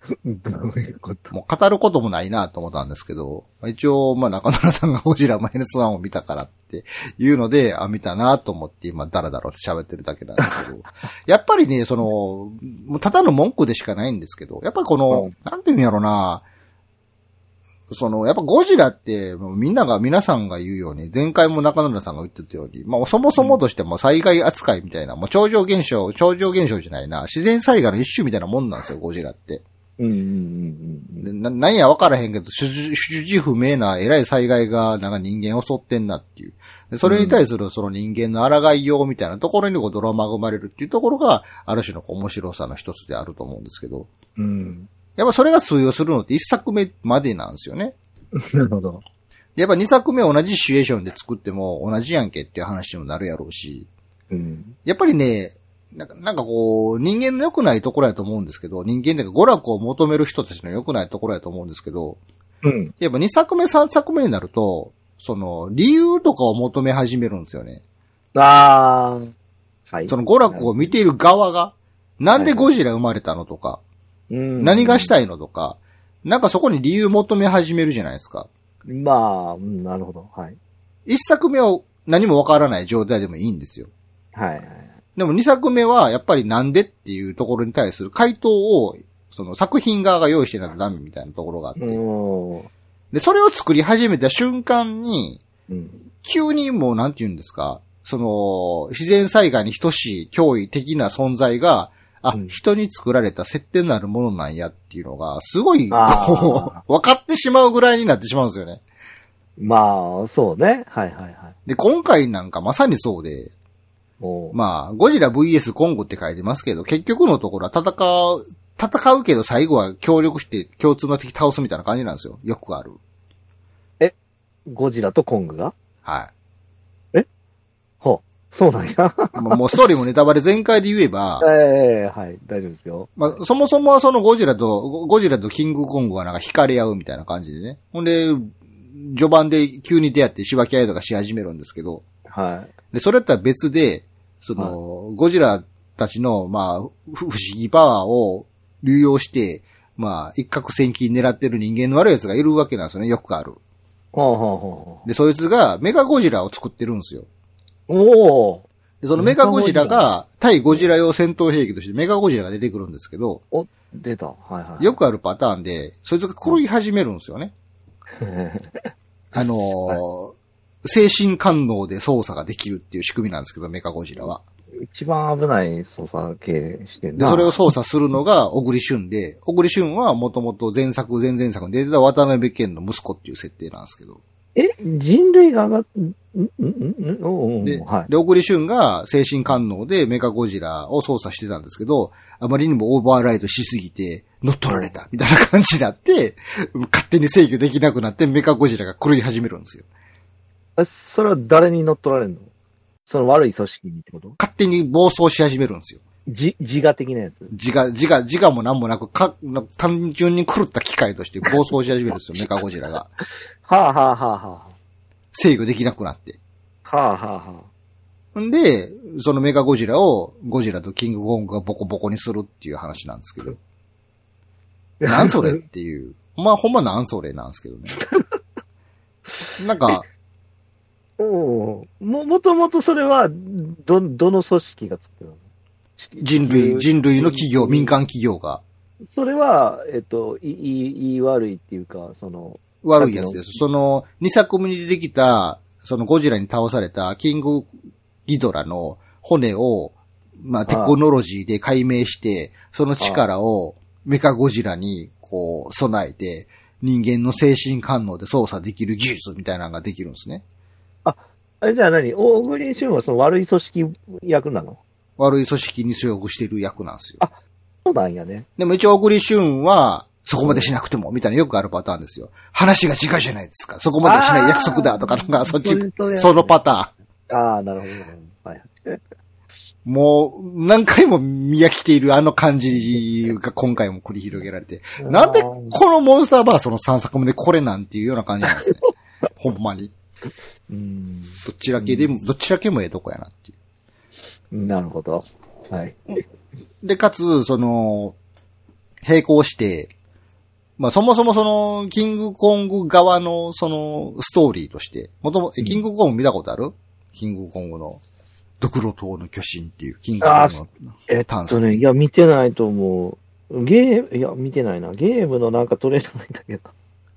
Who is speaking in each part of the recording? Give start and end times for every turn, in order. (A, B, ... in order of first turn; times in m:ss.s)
0:00.2-0:01.3 A
0:01.3-0:16.4 B
0:17.9-0:29.6 B
0:30.0-0:31.3 A
0:31.2-0:44.1 B
0:37.0-0:37.4 A
0:44.4-0:44.9 A
0:45.2-0:47.9 B
0:48.4-0:49.0 A
0:49.6-0:53.9 B
0:54.3-0:54.7 A
0:54.8-1:02.2 B
1:02.6-1:02.9 A
1:03.0-1:07.8 B
1:08.3-1:09.3 A
1:09.9-1:10.9 A
1:10.1-1:13.8 B
1:12.3-1:12.7 A
1:14.3-1:15.1 A
1:14.6-1:18.5 B
1:18.9-1:20.6 A
1:21.0-1:23.9 B
1:24.3-1:24.9 A
1:25.2-1:32.0 B
1:31.8-1:32.7 A
1:33.1-1:35.4 B
1:35.7-1:36.0 A
1:36.2-1:48.8 B
1:42.3-1:42.6 A
1:45.9-1:46.8 A
1:49.6-1:51.5 A
1:51.6-1:53.5 B
1:54.2-1:54.6 A
1:54.5-2:03.0 B
2:04.7-2:05.7 A
2:06.0-2:06.3 B
2:08.0-2:09.8 A
2:09.4-2:11.5 B
2:11.4-2:13.4 A
2:13.2-2:22.0 B
2:22.3-2:22.7 A
2:22.9-2:33.6 B
2:34.1-2:35.0 A
2:35.0-2:37.3 B
2:37.9-2:40.1 A
2:39.0-2:43.4 B
2:43.5-2:45.0 A
2:44.8-2:47.5 B
2:48.2-2:50.0 A
2:49.3-2:54.4 B
2:54.8-2:57.6 A
2:57.2-3:04.2 B
3:04.6-3:08.1 A
3:07.6-3:19.8 B
3:14.7-3:15.0 A
3:20.8-3:22.5 A
3:23.0-3:24.4 A
3:24.4-3:26.0 B
3:26.3-3:27.5 A
3:27.5-3:33.1 B
3:33.6-3:34.7 A
3:35.3-3:36.4 B
3:36.8-3:37.7 A
3:38.3-3:43.6 B
3:45.0-3:45.6 A
3:45.1-3:48.0 B
3:49.3-3:50.0 A
3:49.6-3:50.0 B
3:51.2-3:55.4 A
3:56.0-3:58.0 A
3:56.2-3:58.6 B
3:59.0-4:03.4 A
4:02.8-4:07.7 B
4:08.2-4:20.4 B
4:10.7-4:11.0 A
4:13.0-4:13.2 A
4:21.0-4:24.8 A
4:25.2-4:27.2 B
4:27.2-4:28.5 A
4:28.6-4:36.9 B
4:30.4-4:30.7 A
4:34.0-4:36.6 A
4:37.3-4:39.0 A
4:39.8-4:48.8 B
4:45.0-4:45.8 A
4:49.4-4:49.9 B
4:50.7-4:52.1 A
4:51.4-4:53.5 B
4:54.5-4:56.2 A
4:56.8-4:58.2 B
4:59.0-4:59.9 B
5:00.8-5:08.0 B
5:08.6-5:10.7 B
5:10.2-5:16.7 A
5:11.2-5:11.8 B